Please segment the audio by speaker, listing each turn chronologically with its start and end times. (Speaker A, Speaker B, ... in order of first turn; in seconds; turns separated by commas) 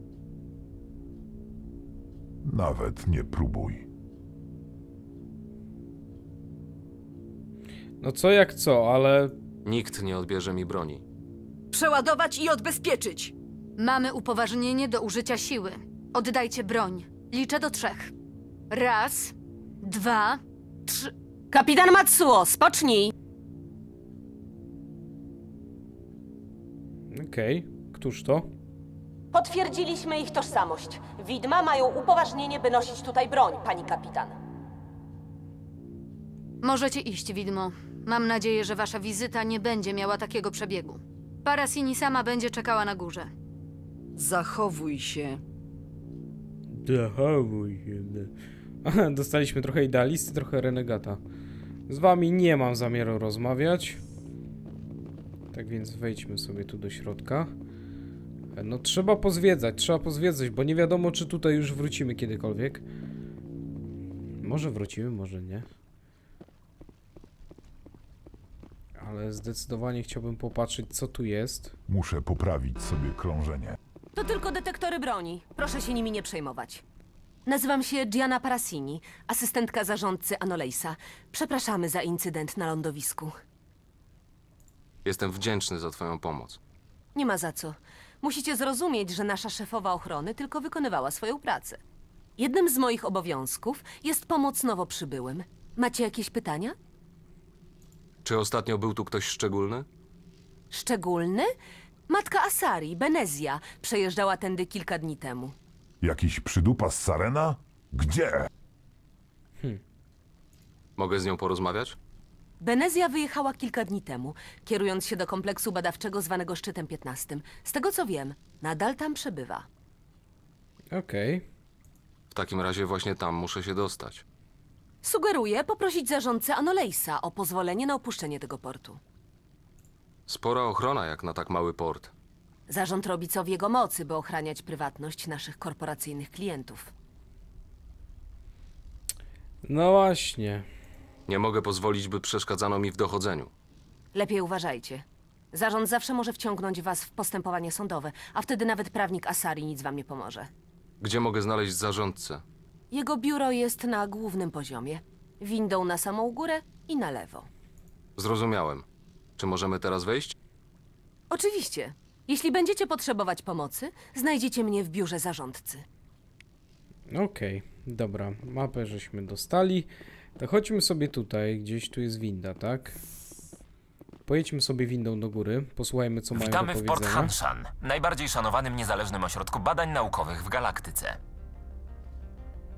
Speaker A: 2.4-3.9, Speaker B: 8.0-9.3, Speaker C: 9.6-11.0, Speaker D: 11.7-13.3, Speaker E: 13.8-18.1, Speaker E: 18.7-21.1, Speaker F: 21.5-23.1, Speaker B: 27.1-28.5, Speaker F: 29.3-34.4, Speaker E: 36.6-43.3, Speaker D: 44.1-45.4, Speaker B: 46.7-48.3, Speaker B: 48.9-51.2, Speaker B: 51.9-54.0, Speaker B: 55.5-57.5, Speaker B: 58.5-62.8, Speaker B: 64.4-65.7, Speaker B: 69.0-71.7, Speaker A: 71.9-73.8, Speaker F: 74.1-76.8, Speaker F: 77.5-83.4, Speaker C: 85.0-86.6, Speaker F: 87.1-91.8, Speaker F: 92.4-96.8, Speaker C: 98.2-99.9, Speaker F: 100.7-101.5, Speaker F: 102.1-105.5, Speaker A: 106.0-108.5, Speaker C: 111.0-112.0, Speaker F: 112.6-119.7, Speaker B: 120.9-121.5, Speaker C: 122.3-124.2, Speaker F: 125.0-129.0, Speaker C: 130.3-132.1, Speaker F: 132.7-136.9, Speaker B: 139.6-140.7, Speaker C: 141.3-143.5, Speaker F: 144.1-150.5, Speaker C: 151.0-152.4, Speaker F: 152.9-157.5, Speaker C: 158.2-158.9, Speaker C: 159.4-160.3, Speaker F: 161.3-165.8, Speaker B: 167.1-173.0, Speaker B: 174.3-177.3, Speaker G: 176.3-181.2